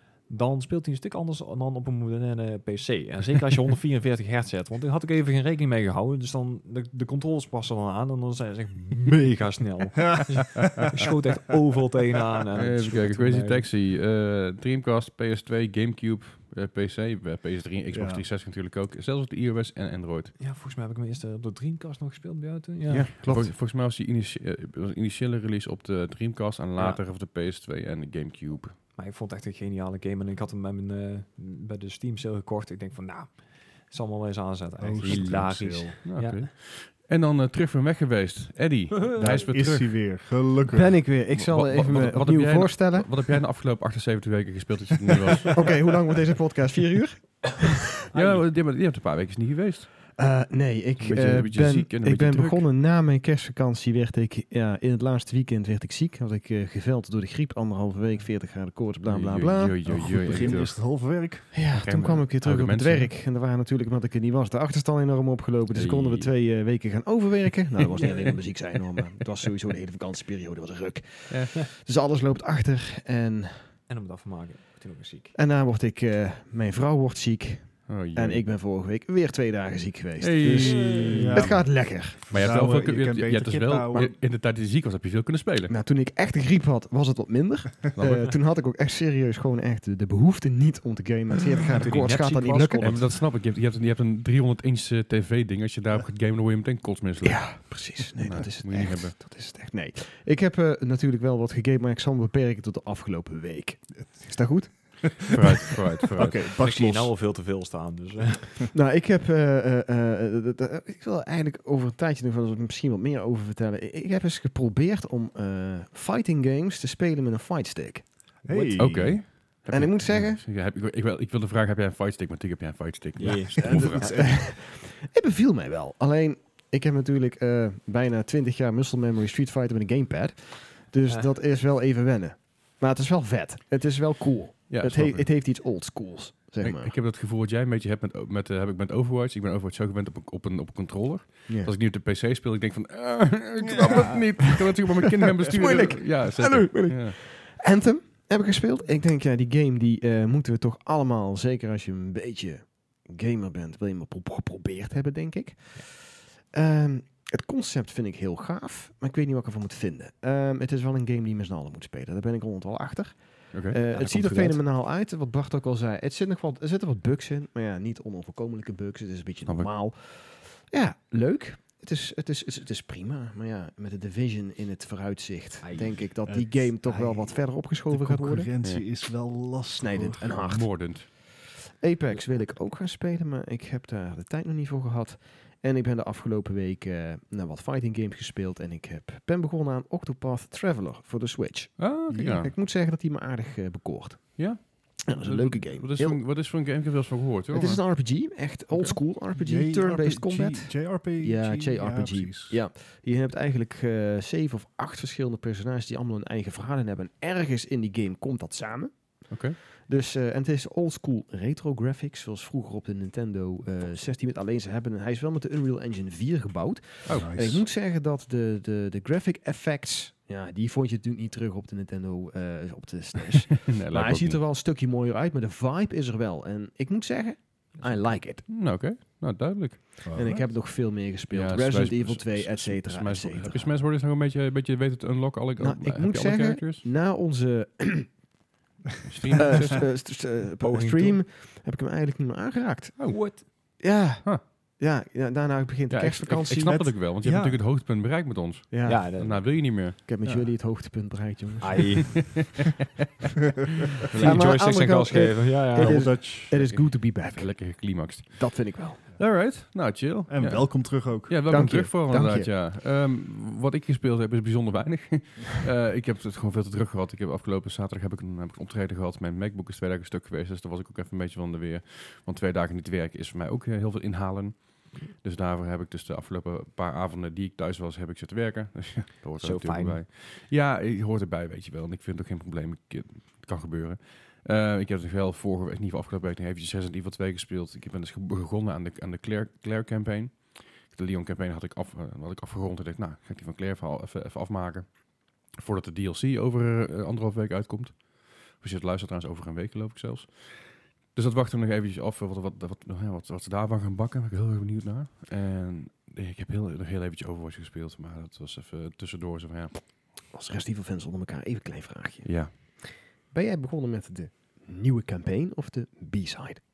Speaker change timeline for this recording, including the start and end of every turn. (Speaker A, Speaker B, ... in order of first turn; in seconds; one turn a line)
Speaker A: 0.3-13.7
Speaker B: 12.6-20.3
Speaker C: 17.9-18.2
Speaker A: 20.4-23.1
Speaker D: 22.9-23.5
Speaker B: 23.2-28.8
Speaker A: 28.9-36.5
Speaker C: 34.8-36.0
Speaker B: 35.0-35.4
Speaker B: 36.0-40.1
Speaker C: 39.1-41.0
Speaker D: 40.7-43.2
Speaker B: 41.1-45.8
Speaker D: 45.5-47.9
Speaker A: 48.1-48.4
Speaker B: 48.1-50.0
Speaker D: 50.1-60.5
Speaker B: 51.0-52.7
Speaker B: 59.0-60.8
Speaker C: 59.8-61.5
Speaker D: 61.5-73.7
Speaker B: 61.7-63.1
Speaker B: 65.7-66.3
Speaker B: 67.9-68.4
Speaker B: 71.3-71.6
Speaker A: 73.9-75.3
Speaker D: 75.3-82.4
Speaker B: 77.9-78.4
Speaker B: 80.2-81.6
Speaker A: 80.7-81.1
Speaker C: 81.1-84.1
Speaker B: 82.3-85.7
Speaker D: 85.7-92.9
Speaker B: 87.9-88.3
Speaker A: 91.8-93.2
Speaker B: 92.8-99.2
Speaker D: 97.2-105.3
Speaker B: 105.3-106.5
Speaker C: 106.1-107.1
Speaker A: 106.2-108.7
Speaker D: 108.7-118.1
Speaker A: 118.4-118.8
Speaker C: 118.5-119.3
Speaker B: 118.8-124.1
Speaker D: 119.7-120.4
Speaker A: 123.2-123.5
Speaker C: 123.6-124.5
Speaker D: 123.6-136.9
Speaker A: 131.1-131.3
Speaker B: 134.7-135.3
Speaker B: 136.6-147.2
Speaker D: 141.5-141.7
Speaker C: 143.6-144.2
Speaker D: 145.4-178.5
Speaker B: 163.5-163.8
Speaker A: 163.9-164.6
Speaker B: 169.4-169.7
Speaker A: 175.6-176.3
Speaker C: 176.2-180.5
Speaker A: 176.8-177.2
Speaker D: 179.8-196.2
Speaker B: 180.4-181.1
Speaker B: 191.8-192.5
Speaker B: 194.4-197.8
Speaker D: 197.5-228.4
Speaker C: 198.7-202.6
Speaker B: 209.3-209.6
Speaker B: 217.0-217.3
Speaker C: 217.1-217.6
Speaker B: 223.7-224.4
Speaker A: 227.8-228.1
Speaker B: 228.5-229.9
Speaker C: 230.0-230.5
Speaker D: 230.1-233.7
Speaker B: 231.3-236.8
Speaker D: 235.6-238.2
Speaker B: 239.0-239.8
Speaker D: 239.3-246.9
Speaker A: 240.2-241.2
Speaker A: 243.0-243.4
Speaker B: 245.9-250.5
Speaker C: 246.6-247.6
Speaker D: 248.7-252.2
Speaker A: 248.8-249.4
Speaker A: 251.6-252.4
Speaker B: 252.2-252.8
Speaker B: 254.0-254.6
Speaker A: 254.1-256.2
Speaker D: 254.2-259.0
Speaker C: 255.8-256.6
Speaker B: 256.5-309.9
Speaker C: 260.3-261.3
Speaker D: 261.5-262.5
Speaker A: 279.4-280.0
Speaker D: 310.3-316.6
Speaker B: 312.2-312.5